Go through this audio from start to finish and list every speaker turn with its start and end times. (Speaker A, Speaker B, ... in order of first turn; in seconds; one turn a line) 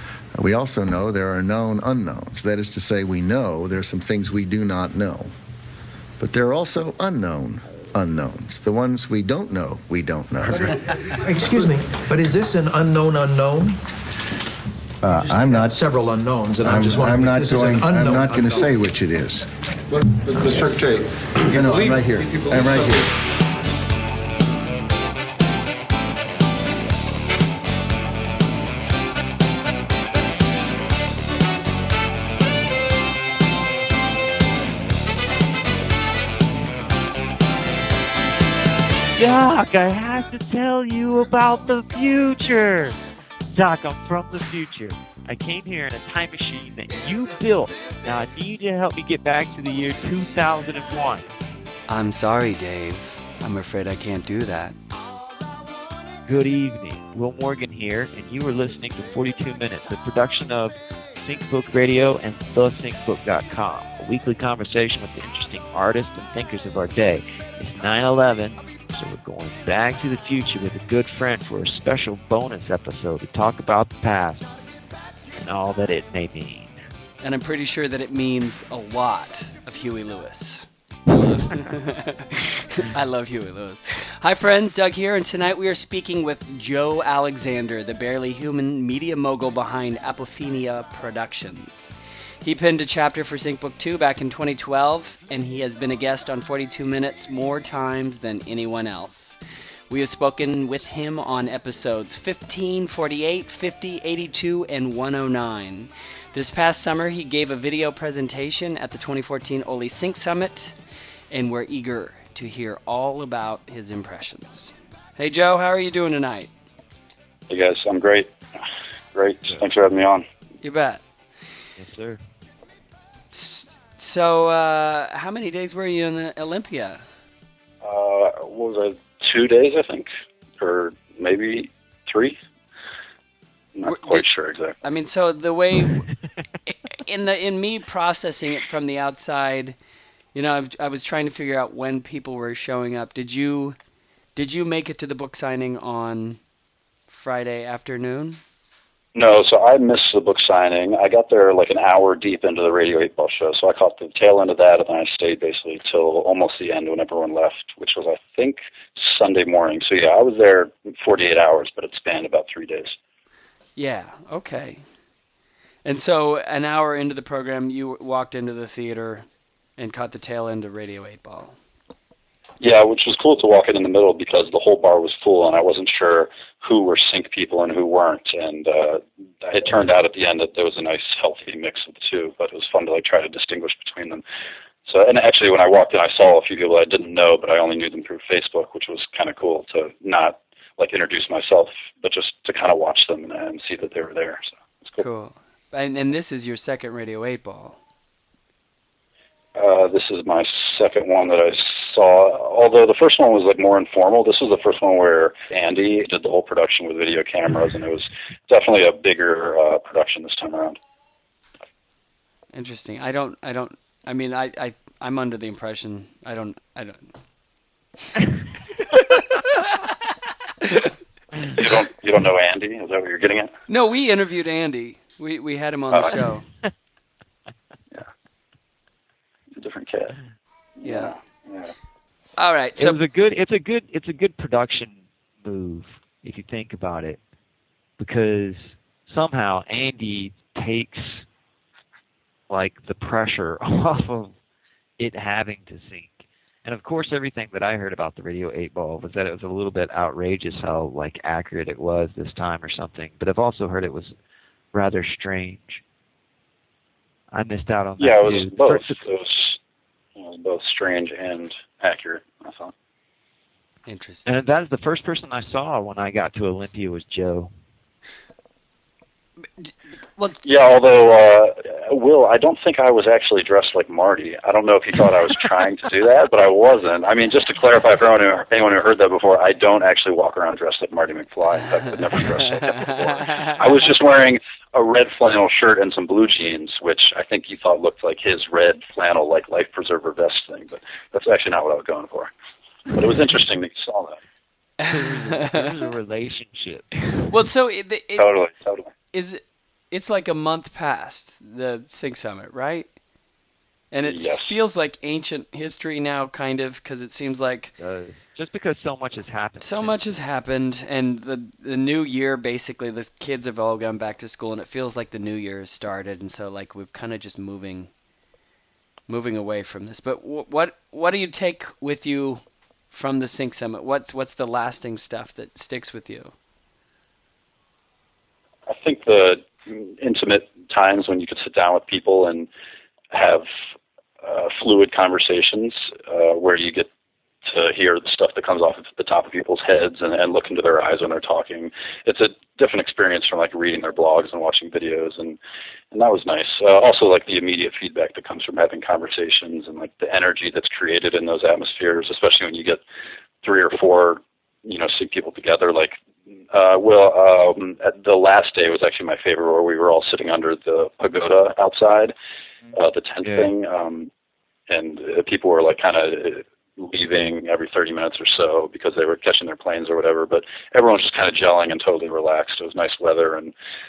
Speaker A: 0.3-5.3
Speaker A: 6.2-10.9
Speaker B: 10.6-13.8
Speaker A: 15.0-15.8
Speaker B: 15.1-18.7
Speaker A: 16.6-19.5
Speaker C: 19.9-23.1
Speaker A: 20.2-23.1
Speaker D: 39.1-43.0
Speaker D: 43.5-51.3
Speaker E: 51.9-54.8
Speaker D: 56.2-74.5
Speaker D: 75.3-76.8
Speaker E: 77.2-91.9
Speaker E: 92.4-99.4
Speaker E: 99.9-110.8
Speaker E: 111.3-116.5
Speaker F: 117.5-118.3
Speaker F: 119.1-120.2
Speaker E: 120.6-121.0
Speaker D: 121.8-122.2
Speaker E: 123.3-127.0
Speaker F: 127.8-130.1
Speaker F: 130.6-132.4
Speaker F: 133.7-134.8
Speaker E: 133.8-134.2
Speaker E: 134.8-136.1
Speaker E: 136.7-139.8
Speaker E: 140.3-143.8
Speaker E: 144.3-146.4
Speaker E: 147.1-148.4
Speaker F: 149.1-162.9
Speaker E: 163.8-164.8
Speaker E: 165.8-169.2
Speaker E: 169.8-171.6
Speaker F: 172.6-184.2
Speaker F: 184.8-195.0
Speaker E: 195.0-197.8
Speaker F: 199.6-210.8
Speaker E: 212.5-217.1
Speaker E: 218.9-219.8
Speaker F: 221.5-223.5
Speaker E: 223.7-226.4
Speaker F: 225.9-226.2
Speaker F: 229.5-230.2
Speaker F: 230.8-231.7
Speaker E: 230.8-231.1
Speaker E: 232.4-233.0
Speaker D: 232.8-237.2
Speaker D: 238.0-241.2
Speaker D: 242.5-244.3
Speaker D: 245.0-254.1
Speaker D: 254.7-255.8
Speaker D: 257.3-259.0
Speaker F: 258.0-259.6
Speaker F: 260.2-262.7
Speaker E: 263.9-264.3
Speaker D: 264.2-267.5
Speaker E: 269.6-270.4
Speaker F: 270.4-292.3
Speaker E: 282.4-283.6
Speaker F: 292.9-294.2
Speaker E: 294.8-295.8
Speaker D: 294.9-297.3
Speaker E: 297.3-298.3
Speaker F: 298.2-298.9
Speaker E: 299.1-302.9
Speaker E: 303.9-307.7
Speaker F: 304.0-304.5
Speaker D: 307.8-310.2
Speaker E: 309.6-317.9
Speaker E: 319.1-326.3
Speaker F: 328.7-332.5
Speaker F: 333.1-333.4
Speaker F: 334.2-336.9
Speaker F: 337.4-345.4
Speaker F: 345.9-352.8
Speaker F: 353.4-355.9
Speaker F: 356.5-362.1
Speaker F: 362.7-364.1
Speaker D: 363.2-363.5
Speaker F: 364.7-373.5